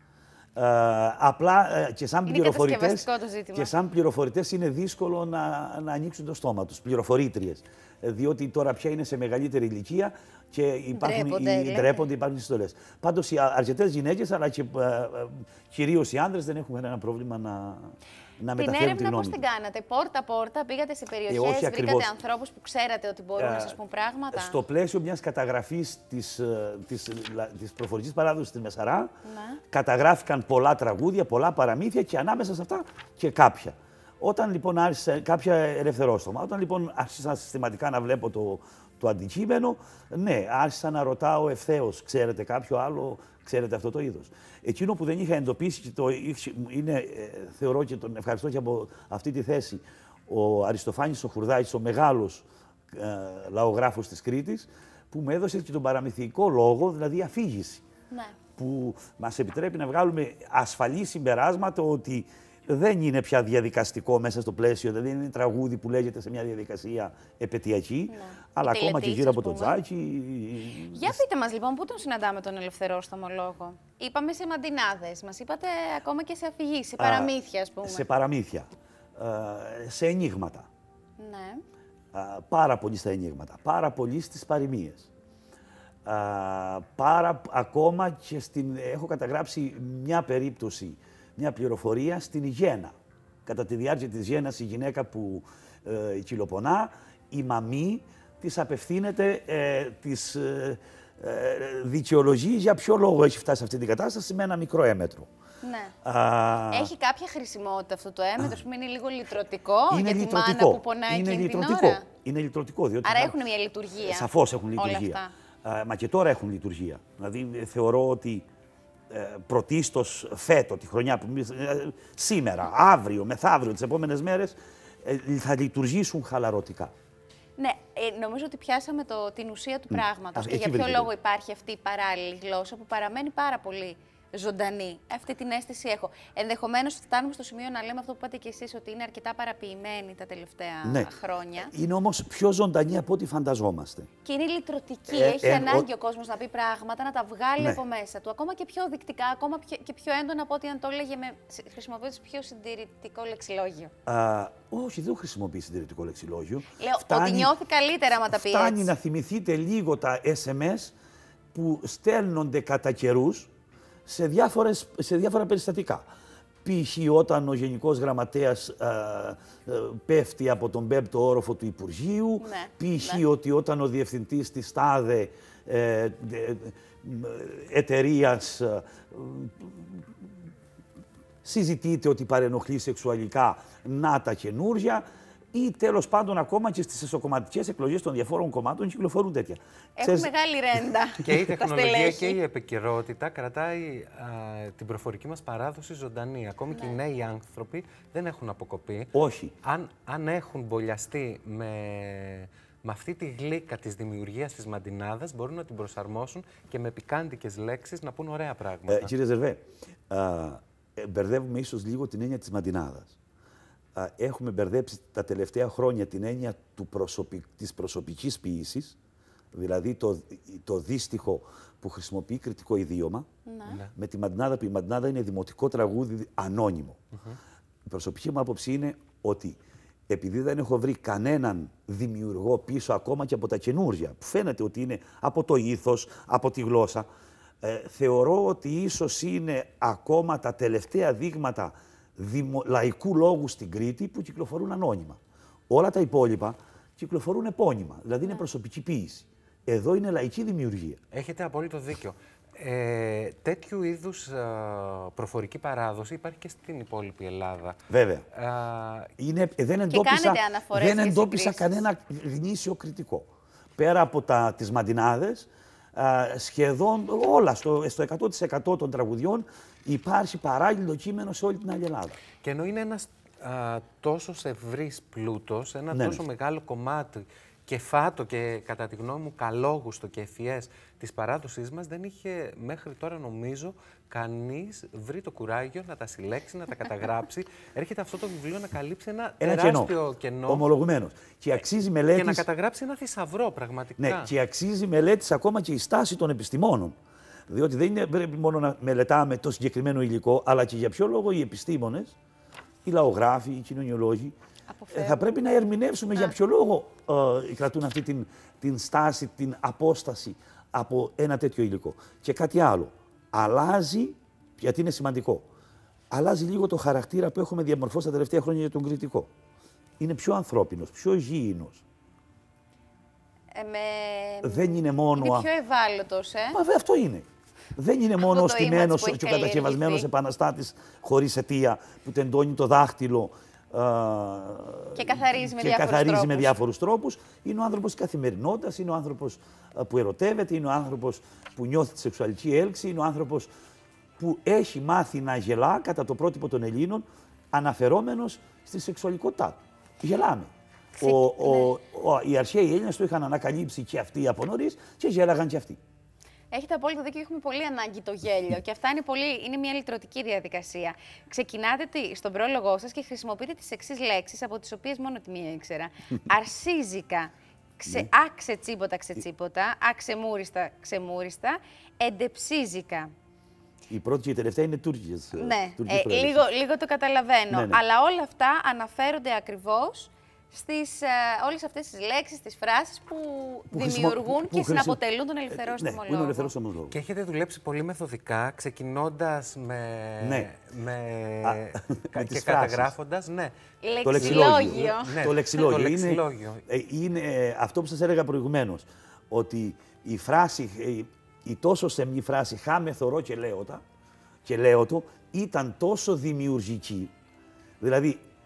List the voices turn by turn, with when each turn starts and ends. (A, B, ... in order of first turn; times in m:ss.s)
0:00.6-0:19.4 A
0:02.3-0:03.7 B
0:10.9-0:12.0 B
0:18.6-0:24.6 B
0:21.3-0:22.1 A
0:23.4-0:23.8 A
0:24.3-0:29.1 A
0:29.2-0:29.6 B
0:29.7-0:57.8 A
0:58.1-0:58.4 B
0:58.6-1:11.2 A
1:08.1-1:09.8 B
1:10.8-1:18.0 B
1:17.0-1:17.3 A
1:17.8-1:20.7 A
1:21.2-1:21.6 B
1:22.1-1:25.1 A
1:26.0-1:33.0 A
1:33.5-1:45.3 A
1:45.6-1:45.9 B
1:46.0-1:46.9 A
1:46.7-1:52.1 B
1:49.9-1:53.4 A
1:53.0-1:55.3 B
1:54.0-1:58.4 A
1:59.1-2:06.9 A
2:07.6-2:21.7 B
2:09.9-2:11.1 A
2:20.8-2:24.1 A
2:24.2-2:33.9 B
2:25.1-2:25.9 A
2:34.1-2:37.5 A
2:36.8-2:38.9 B
2:38.3-2:41.0 A
2:41.5-2:43.5 A
2:44.1-2:46.1 A
2:46.6-3:00.1 A
2:52.4-2:53.2 B
3:01.4-3:10.3 A
3:10.0-3:12.4 B
3:11.2-3:29.1 C
3:16.7-3:17.0 B
3:19.1-3:19.5 A
3:28.9-3:33.2 A
3:34.0-3:39.0 A
3:39.5-3:43.3 A
3:43.5-3:43.8 B
3:43.7-3:43.9 C
3:43.9-3:47.0 A
3:47.9-3:57.1 A
3:57.6-4:05.2 A
4:05.7-4:11.0 A
4:11.1-4:17.8 C
4:17.9-4:18.3 A
4:18.3-4:19.1 C
4:19.2-4:32.2 A
4:19.9-4:21.8 B
4:32.4-4:50.7 C
4:35.9-4:36.2 A
4:49.4-4:49.9 A
4:50.5-4:52.5 A
4:52.1-4:54.3 C
4:54.0-4:57.0 A
4:57.5-5:02.2 A
5:02.8-5:04.4 A
5:04.7-5:05.3 B
5:04.9-5:15.5 A
5:16.1-5:19.3 A
5:20.0-5:21.8 A
5:23.5-5:26.6 B
5:24.4-5:25.5 A
5:26.5-5:43.5 A
5:28.2-5:30.1 B
5:35.0-5:36.6 B
5:44.2-5:50.5 A
5:51.0-5:51.7 B
5:51.0-5:55.8 A
5:56.5-6:13.1 B
6:07.9-6:08.1 A
6:13.9-6:16.4 A
6:15.3-6:26.5 B
6:17.5-6:17.8 A
6:23.7-6:25.0 A
6:25.5-6:27.0 A
6:26.9-6:33.5 C
6:30.2-6:30.5 A
6:31.4-6:32.9 A
6:33.8-6:35.2 B
6:34.0-6:43.8 A
6:34.0-6:36.6 C
6:44.4-6:47.1 A
6:47.8-6:48.2 A